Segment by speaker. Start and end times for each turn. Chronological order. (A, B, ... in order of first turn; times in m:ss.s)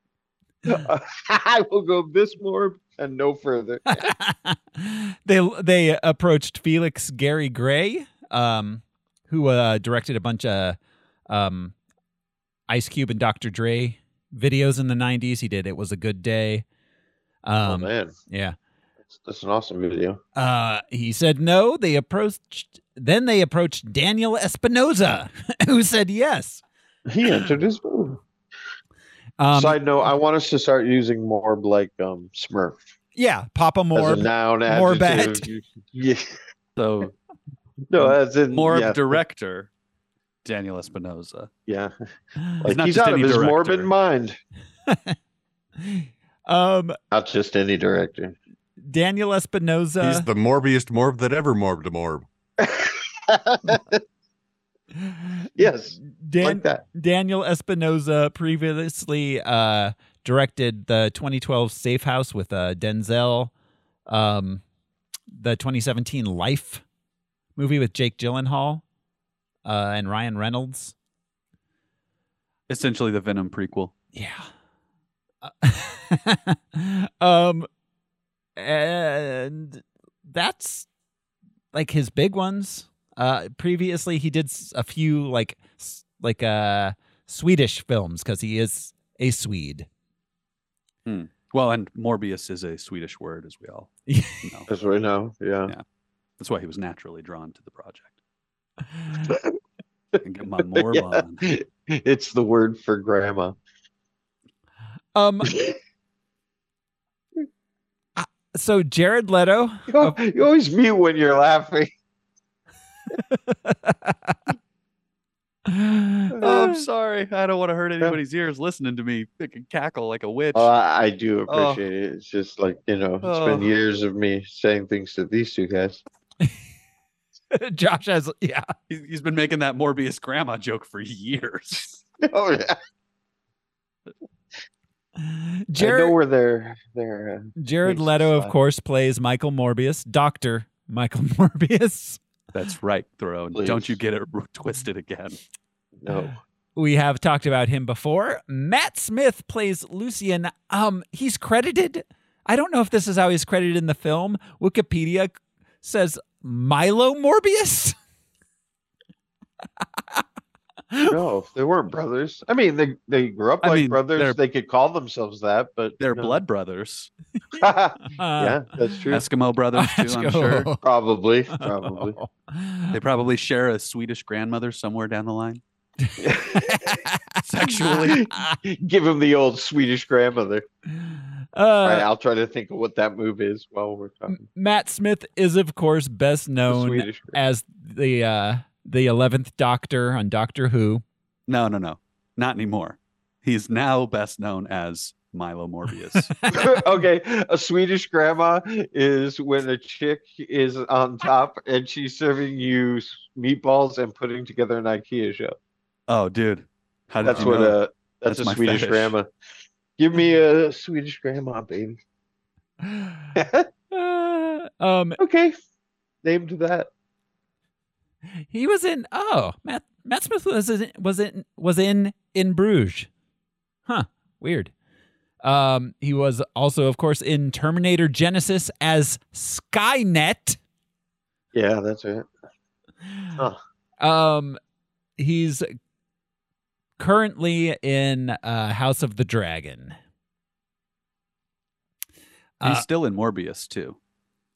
0:00.6-0:04.1 A
0:03.9-0:10.8 B
0:11.3-0:11.7 B
0:12.7-0:16.6 B
0:17.4-0:18.6 B
0:17.6-0:18.1 A
0:19.1-0:20.2 A
0:20.4-0:26.6 B
0:27.1-0:28.2 A
0:29.4-0:29.8 B
0:29.5-0:32.8 A
0:33.2-0:35.5 B
0:33.9-0:36.4 A
0:36.8-0:37.1 C
0:37.9-0:39.2 A
0:38.0-0:39.7 C
0:40.4-0:41.5 C
0:41.7-0:41.9 A
0:42.6-0:44.4 A
0:42.6-0:43.9 C
0:44.9-0:45.2 B
0:45.8-0:47.0 B
0:47.1-0:48.4 A
0:48.8-0:50.3 B
0:50.0-0:52.2 D
0:52.6-0:54.0 A
0:55.0-1:03.5 B
0:55.6-0:56.8 A
1:04.1-1:04.6 B
1:05.3-1:06.8 B
1:07.6-1:08.8 B
1:09.6-1:10.9 B
1:12.7-1:13.9 C
1:14.1-1:14.4 B
1:15.4-1:17.7 B
1:18.6-1:20.9 B
1:21.7-1:29.9 B
1:31.0-1:34.7 C
1:34.1-1:34.4 B
1:34.7-1:35.7 A
1:36.4-1:38.2 C
1:39.2-1:39.6 A
1:40.2-1:41.5 C
1:40.6-1:43.6 A
1:45.1-1:45.5 B
1:45.4-1:45.8 A
1:48.2-1:50.2 B
1:49.9-1:51.9 A
1:53.3-1:54.3 B
1:55.7-1:56.6 B
1:56.3-1:56.6 A
1:56.4-2:00.7 C
2:00.5-2:06.0 A
2:01.5-2:01.8 C
2:03.2-2:03.7 C
2:07.5-2:08.7 B
2:08.9-2:12.0 C
2:12.2-2:12.8 A
2:15.2-2:16.2 B
2:15.8-2:18.5 A
2:17.6-2:22.2 B
2:22.5-2:25.4 C
2:23.5-2:24.0 A
2:26.0-2:26.4 A
2:26.8-2:38.0 B
2:41.1-2:46.4 A
2:43.6-2:44.4 C
2:46.0-2:47.1 C
2:47.5-2:49.2 A
2:48.1-2:49.0 B
2:49.1-2:50.7 C
2:49.8-2:50.8 B
2:50.8-2:52.2 A
2:51.5-2:53.0 B
2:52.9-2:55.6 C
2:56.0-2:58.6 B
2:56.2-2:57.0 A
2:57.4-2:58.2 C
2:57.8-3:00.6 A
3:01.1-3:02.1 B
3:01.8-3:04.4 A
3:04.3-3:11.0 B
3:06.7-3:07.4 A
3:11.5-3:16.5 C
3:16.5-3:25.6 A
3:26.1-3:29.1 C
3:27.2-3:29.3 A
3:30.0-3:32.0 A
3:32.8-3:33.3 B
3:33.3-3:33.7 A
3:33.9-3:35.2 B
3:35.2-3:35.5 A
3:36.2-3:36.9 A
3:38.5-3:43.1 B
3:43.9-3:44.7 B
3:45.4-3:50.6 B
3:51.5-3:52.3 A
3:54.0-3:54.6 B
3:55.2-3:55.6 B
3:57.0-3:59.9 B
4:02.6-4:02.8 B
4:02.6-4:04.0 C